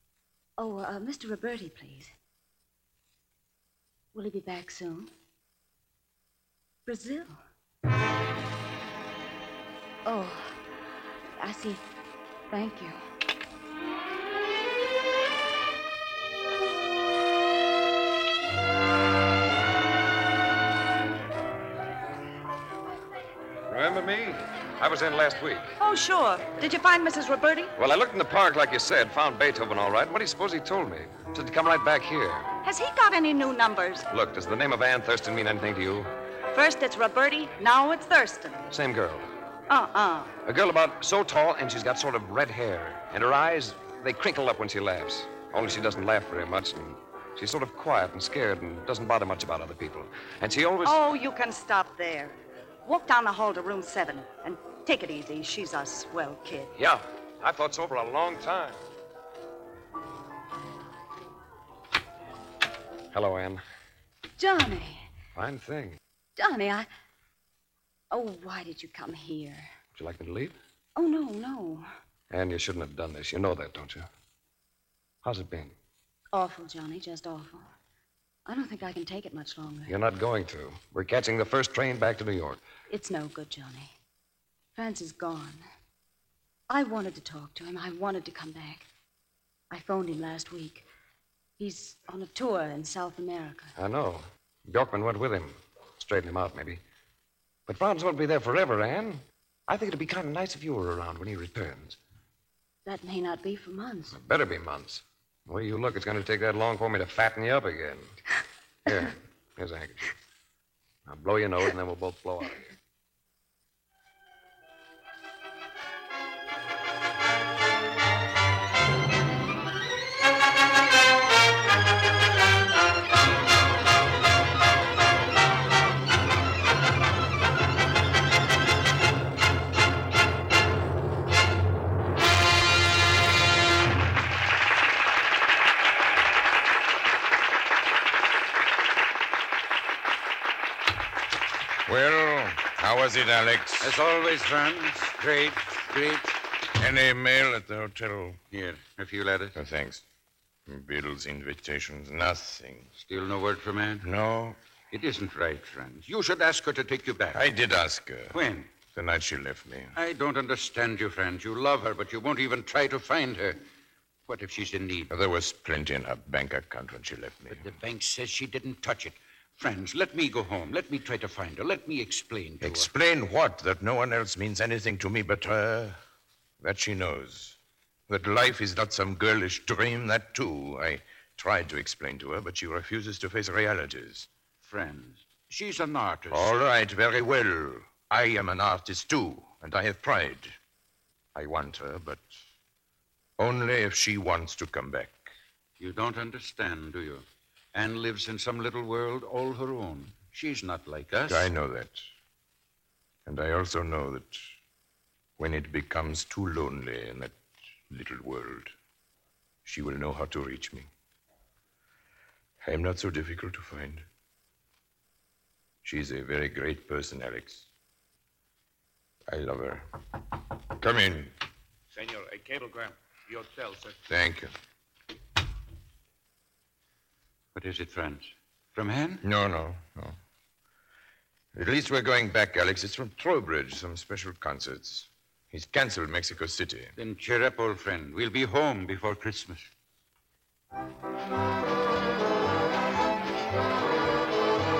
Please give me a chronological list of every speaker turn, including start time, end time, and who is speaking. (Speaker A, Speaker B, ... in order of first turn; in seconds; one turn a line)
Speaker A: 0.6-2.1
Speaker A: 4.1-5.1
Speaker A: 6.9-7.4
Speaker A: 10.1-10.6
Speaker A: 11.4-11.8
Speaker A: 12.5-13.0
Speaker B: 23.7-25.7
Speaker C: 25.8-27.7
Speaker B: 27.8-32.5
Speaker C: 32.6-34.1
Speaker B: 34.1-36.1
Speaker C: 36.5-38.7
Speaker B: 38.7-39.3
Speaker C: 39.7-40.3
Speaker B: 40.4-51.0
Speaker C: 50.8-56.7
Speaker B: 56.8-58.8
Speaker B: 63.1-63.6
Speaker A: 64.4-65.1
Speaker B: 65.3-66.0
Speaker A: 66.4-66.9
Speaker A: 68.1-69.7
Speaker B: 70.0-70.6
Speaker A: 71.0-71.9
Speaker B: 72.3-74.1
Speaker B: 75.2-75.7
Speaker A: 76.3-77.7
Speaker A: 78.5-80.0
Speaker B: 79.9-82.6
Speaker A: 82.9-83.9
Speaker A: 84.8-85.6
Speaker A: 86.7-88.9
Speaker A: 89.7-90.8
Speaker A: 91.6-93.7
Speaker B: 93.8-96.8
Speaker B: 97.7-102.0
Speaker A: 102.9-104.2
Speaker B: 104.1-108.2
Speaker B: 108.9-110.1
Speaker B: 111.1-112.6
Speaker D: 141.9-143.9
Speaker E: 143.8-146.3
Speaker D: 146.8-148.4
Speaker E: 148.5-149.6
Speaker D: 149.6-150.0
Speaker D: 150.7-152.9
Speaker E: 153.0-154.1
Speaker D: 154.0-154.6
Speaker E: 154.9-157.4
Speaker D: 157.3-158.4
Speaker E: 158.3-158.7
Speaker D: 158.9-159.9
Speaker E: 160.0-163.6
Speaker E: 164.3-165.1
Speaker D: 165.1-167.6
Speaker E: 167.5-172.9
Speaker D: 172.6-176.0
Speaker D: 176.6-177.6
Speaker D: 178.1-184.3
Speaker E: 184.6-186.5
Speaker D: 186.3-190.6
Speaker D: 191.3-192.4
Speaker D: 193.4-195.3
Speaker E: 195.8-201.5
Speaker D: 201.3-202.1
Speaker D: 203.3-204.4
Speaker D: 205.4-207.3
Speaker D: 207.9-208.7
Speaker D: 209.7-210.9
Speaker D: 212.6-214.1
Speaker D: 215.8-217.7
Speaker D: 219.3-219.8
Speaker D: 220.7-221.3
Speaker F: 221.9-224.0
Speaker D: 224.1-224.5
Speaker E: 227.5-229.2
Speaker D: 229.2-230.2
Speaker D: 231.6-236.9
Speaker E: 237.0-239.7